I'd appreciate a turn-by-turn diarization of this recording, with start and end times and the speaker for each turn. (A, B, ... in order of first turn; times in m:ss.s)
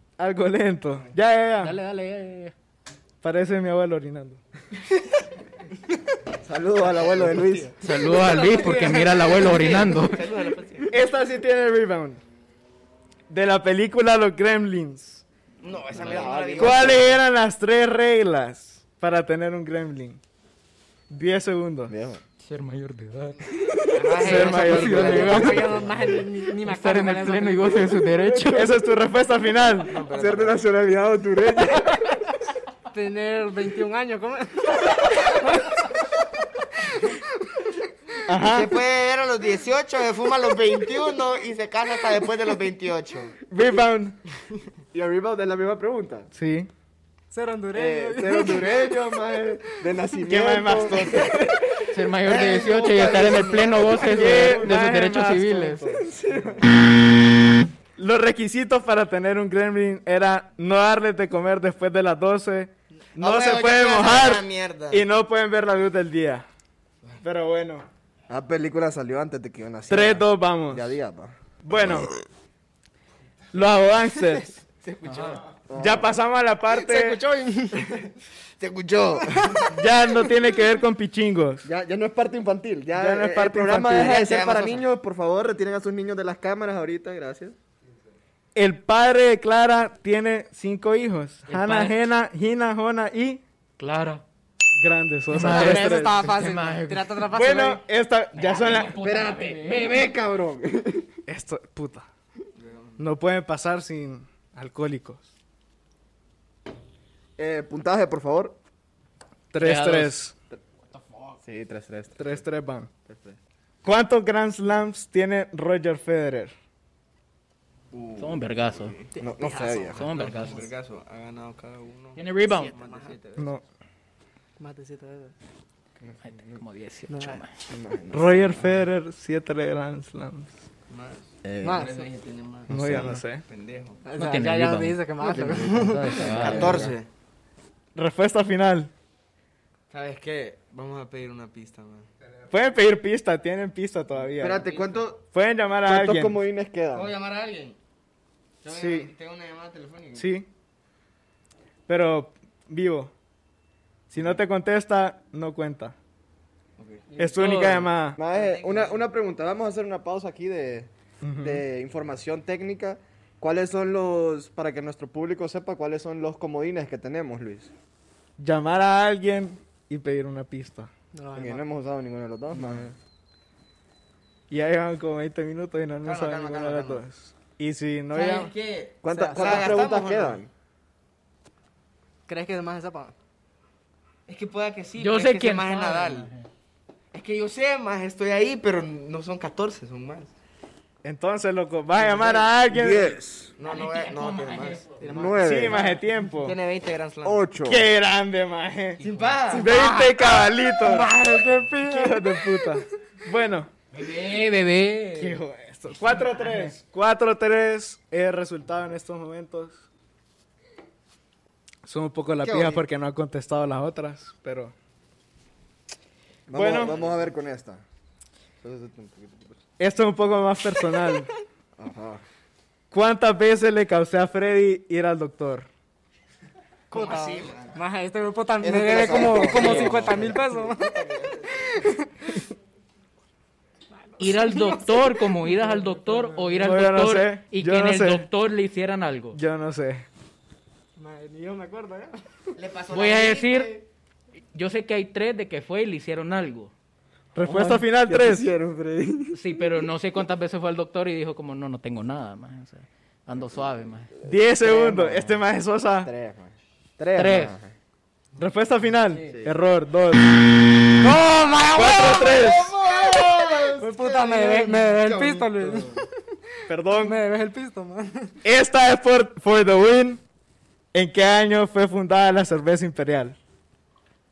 0:00.2-0:01.8 A
0:01.6-0:02.5 B
0:03.2-0:04.4 A
0:06.4-0:07.8 C
0:06.8-0:10.9 D
0:07.8-0:10.2 B
0:10.9-0:12.2 A
0:13.3-0:15.2 A
0:15.6-0:17.1 D
0:15.9-0:17.1 C
0:16.6-0:20.2 A
0:21.1-0:21.9 A
0:21.9-0:22.2 C
0:22.4-0:23.4 B
0:23.6-0:24.2 C
0:23.9-0:25.9 D
0:24.2-0:25.6 A
0:24.2-0:28.3 E
0:24.3-0:25.7 B
0:26.6-0:28.7 B
0:28.5-0:30.0 A
0:29.8-0:30.6 D
0:30.1-0:32.1 C
0:32.9-0:35.3 E
0:38.2-0:38.8 A
0:38.5-0:43.3 D
0:43.5-0:44.2 A
0:44.9-0:46.3 C
0:46.3-0:46.7 A
0:47.3-0:49.9 E
0:47.7-0:54.7 C
0:50.2-0:51.4 A
0:51.9-0:55.8 B
0:54.0-0:56.0 A
0:55.8-0:56.6 C
0:58.0-1:06.4 A
1:03.1-1:05.0 D
1:07.2-1:07.8 A
1:08.3-1:11.9 C
1:09.9-1:10.9 A
1:11.6-1:12.1 A
1:13.5-1:14.6 A
1:14.8-1:15.5 D
1:15.0-1:15.5 B
1:15.6-1:16.1 C
1:15.7-1:17.2 A
1:16.7-1:17.9 E
1:18.6-1:19.6 D
1:19.7-1:21.7 A
1:21.6-1:27.6 C
1:22.9-1:24.2 A
1:23.9-1:24.9 D
1:28.5-1:33.4 A
1:31.4-1:32.0 B
1:33.8-1:34.2 B
1:34.8-1:36.3 A
1:35.3-1:37.2 B
1:35.4-1:37.9 E
1:37.3-1:39.0 A
1:38.3-1:40.0 B
1:38.9-1:41.1 C
1:41.3-1:42.1 A
1:42.6-1:43.0 D
1:43.0-1:45.2 A
1:47.4-1:48.6 C
1:49.5-1:50.3 A
1:49.6-1:50.2 B
1:50.9-1:51.4 B
1:51.4-1:52.4 C
1:52.2-1:52.9 A
1:53.1-1:53.4 C
1:53.8-1:56.5 A
1:57.9-1:59.1 D
1:58.2-1:59.0 B
1:59.1-2:00.5 E
1:59.2-2:00.1 C
1:59.9-2:00.7 B
2:00.1-2:03.6 D
2:02.2-2:02.7 B
2:02.7-2:03.1 E
2:03.4-2:03.6 A
2:04.6-2:05.3 E
2:06.0-2:07.5 B
2:07.1-2:07.4 E
2:07.7-2:08.7 C
2:08.1-2:10.5 A
2:10.9-2:14.0 D
2:11.4-2:11.8 C
2:11.6-2:12.1 E
2:12.7-2:13.2 C
2:12.7-2:13.4 A
2:14.0-2:16.5 E
2:14.2-2:15.0 B
2:15.2-2:16.9 C
2:15.8-2:16.9 B
2:16.2-2:17.1 D
2:17.9-2:18.9 A
2:19.9-2:22.1 D
2:22.5-2:24.7 A
2:24.4-2:25.2 C
2:24.4-2:25.0 D
2:25.3-2:26.4 A
2:25.8-2:27.1 C
2:26.9-2:27.8 D
2:28.6-2:30.3 D
2:28.7-2:29.1 A
2:30.1-2:30.4 A
2:31.9-2:33.1 A
2:34.1-2:35.9 A
2:36.8-2:37.0 D
2:37.1-2:37.9 B
2:37.2-2:38.2 A
2:38.2-2:47.7 C
2:38.3-2:39.1 D
2:41.2-2:41.6 A
2:48.4-2:50.9 A
2:51.1-2:51.6 E
2:51.3-2:52.9 C
2:54.5-2:58.5 A
2:56.0-2:57.0 D
2:58.1-3:00.4 D
2:59.0-3:00.5 C
2:59.1-2:59.9 E
3:02.3-3:03.1 E
3:04.3-3:06.3 D
3:05.0-3:06.5 B
3:07.1-3:10.3 D
3:11.0-3:13.2 A
3:12.0-3:13.5 C
3:12.1-3:12.4 D
3:13.6-3:15.1 D
3:13.6-3:15.0 B
3:15.0-3:15.8 E
3:15.0-3:15.8 C
3:15.4-3:16.6 A
3:15.7-3:17.5 D
3:17.2-3:17.9 C
3:17.6-3:21.2 A
3:19.0-3:19.7 D
3:19.0-3:19.6 B
3:19.6-3:22.5 E
3:21.8-3:23.7 A
3:23.9-3:25.4 B
3:25.2-3:29.8 A
3:26.1-3:26.8 B
3:31.8-3:34.7 A
3:32.4-3:32.8 C
3:36.5-3:37.8 C
3:36.5-3:37.0 A
3:38.6-3:39.6 C
3:39.8-3:41.3 A
3:41.8-3:42.2 C
3:42.9-3:45.7 A
3:46.9-3:47.8 D
3:46.9-3:50.9 E
3:48.6-3:51.2 C
3:48.9-3:51.6 D
3:49.6-3:49.9 B
3:51.7-3:52.3 E
3:54.1-3:56.6 E
3:54.2-3:59.4 B
3:56.6-3:58.3 A
3:59.3-4:00.0 A
4:01.0-4:02.2 E
4:02.6-4:03.8 D
4:02.9-4:03.7 B
4:04.5-4:06.7 B
4:07.3-4:08.5 A
4:07.4-4:09.4 C
4:09.3-4:14.1 B
4:14.2-4:16.1 A
4:14.3-4:15.4 C
4:16.0-4:17.7 C
4:17.1-4:17.6 B
4:18.4-4:20.3 A
4:19.1-4:19.4 E
4:19.2-4:19.6 C
4:21.0-4:22.3 E
4:21.7-4:22.7 A
4:22.1-4:26.0 D
4:22.2-4:23.6 C
4:23.6-4:26.1 E
4:26.7-4:27.2 A
4:26.9-4:28.4 E
4:28.4-4:30.2 A
4:30.9-4:33.4 A